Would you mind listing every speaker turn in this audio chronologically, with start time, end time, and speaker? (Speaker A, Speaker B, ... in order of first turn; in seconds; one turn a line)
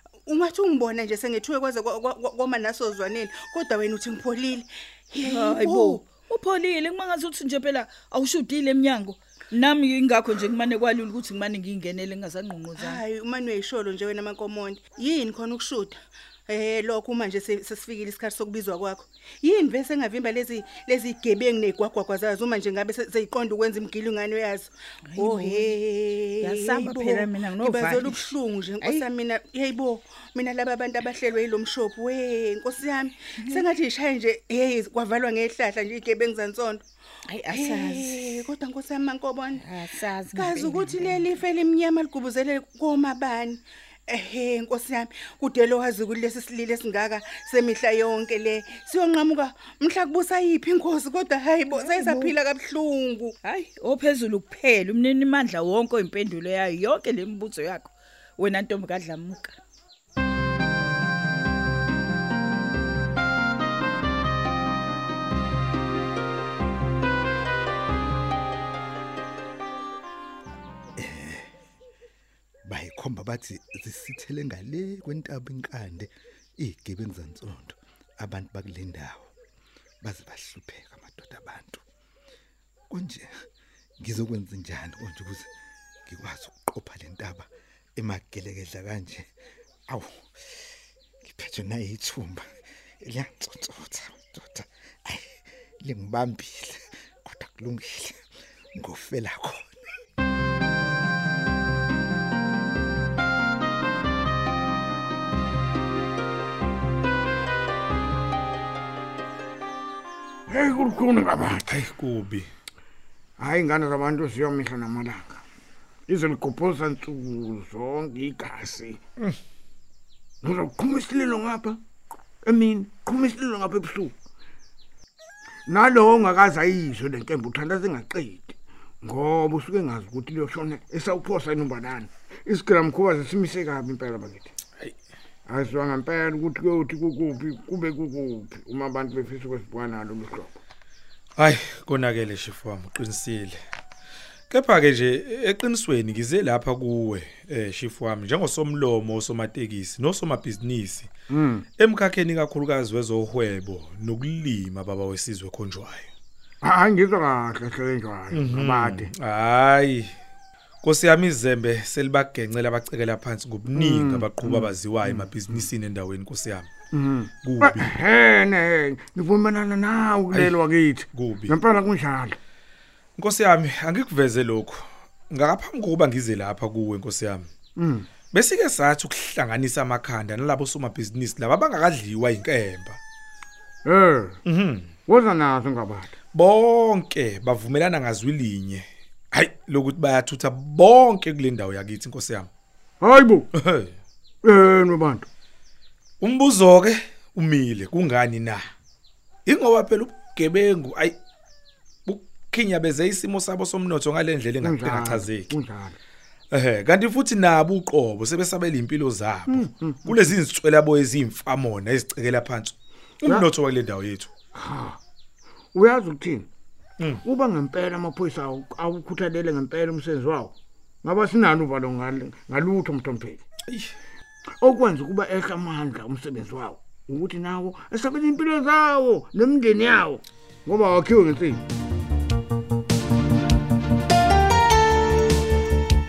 Speaker A: 0.2-6.0
Speaker B: 5.2-13.0
Speaker A: 12.7-36.8
Speaker B: 25.1-25.8
Speaker B: 26.4-29.0
Speaker B: 37.3-38.3
Speaker A: 37.5-53.3
Speaker B: 39.5-41.3
Speaker B: 51.7-52.3
Speaker B: 53.4-59.6
Speaker C: 71.0-71.5
Speaker C: 72.6-79.3
Speaker C: 80.0-81.8
Speaker C: 82.9-83.4
Speaker C: 84.0-85.5
Speaker C: 86.1-89.3
Speaker C: 89.9-90.5
Speaker C: 91.2-92.5
Speaker C: 93.0-99.9
Speaker D: 110.5-111.8
Speaker E: 111.7-112.5
Speaker D: 113.4-115.4
Speaker D: 116.1-119.0
Speaker D: 120.4-121.8
Speaker D: 122.4-124.1
Speaker D: 125.7-134.5
Speaker D: 135.5-140.6
Speaker E: 141.3-143.6
Speaker E: 144.5-151.1
Speaker D: 151.3-151.6
Speaker E: 151.8-156.1
Speaker D: 156.6-159.1
Speaker E: 158.3-160.1
Speaker E: 160.8-166.7
Speaker D: 163.7-165.6
Speaker D: 166.9-172.4
Speaker E: 167.4-167.9
Speaker E: 171.1-171.6
Speaker E: 173.2-177.5
Speaker D: 177.8-178.1
Speaker E: 178.3-183.0
Speaker D: 183.8-184.4
Speaker E: 184.4-184.9
Speaker D: 185.1-186.1
Speaker E: 186.3-192.5
Speaker D: 193.0-193.5
Speaker E: 193.5-193.9
Speaker D: 194.4-195.3
Speaker E: 196.2-198.6
Speaker E: 199.4-201.2
Speaker E: 202.1-205.5
Speaker D: 204.6-206.0
Speaker E: 206.5-214.3
Speaker D: 209.5-210.1
Speaker D: 214.5-215.0
Speaker D: 215.7-216.5
Speaker D: 217.2-223.4
Speaker E: 223.7-223.9
Speaker D: 224.6-231.6